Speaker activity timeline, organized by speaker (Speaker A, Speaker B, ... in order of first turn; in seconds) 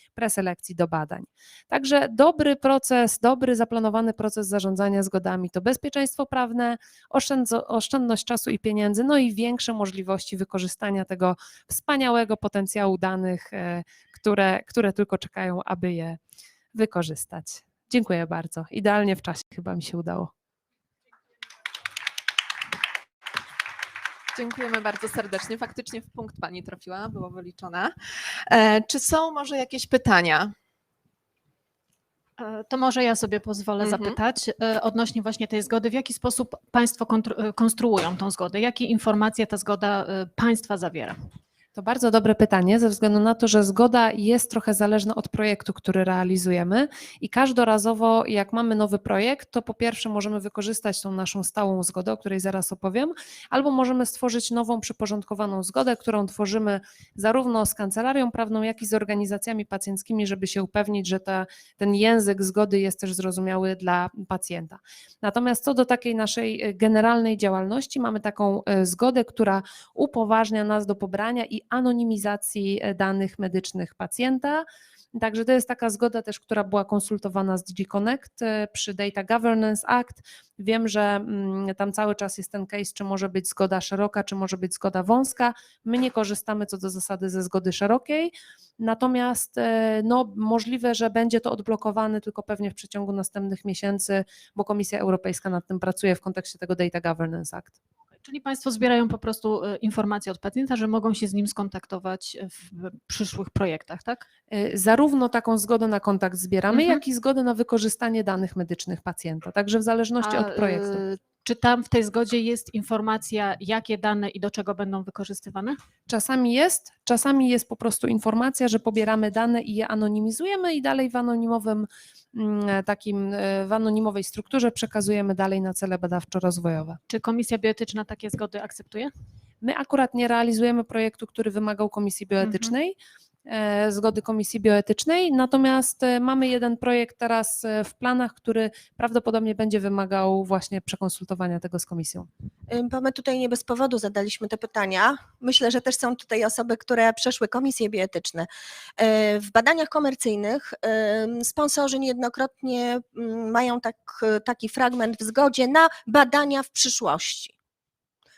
Speaker A: 0.1-16.2, 16.7-20.3, 41.7-74.6, 75.1-97.7, 104.5-111.0, 116.1-127.0, 129.6-132.9, 133.5-142.3
Speaker B: 24.4-30.5, 33.8-34.2
Speaker C: 32.4-41.2, 98.2-104.2, 106.7-107.0, 110.2-115.8, 127.1-129.1, 132.4-132.7
Speaker D: 142.7-148.5, 149.0-157.5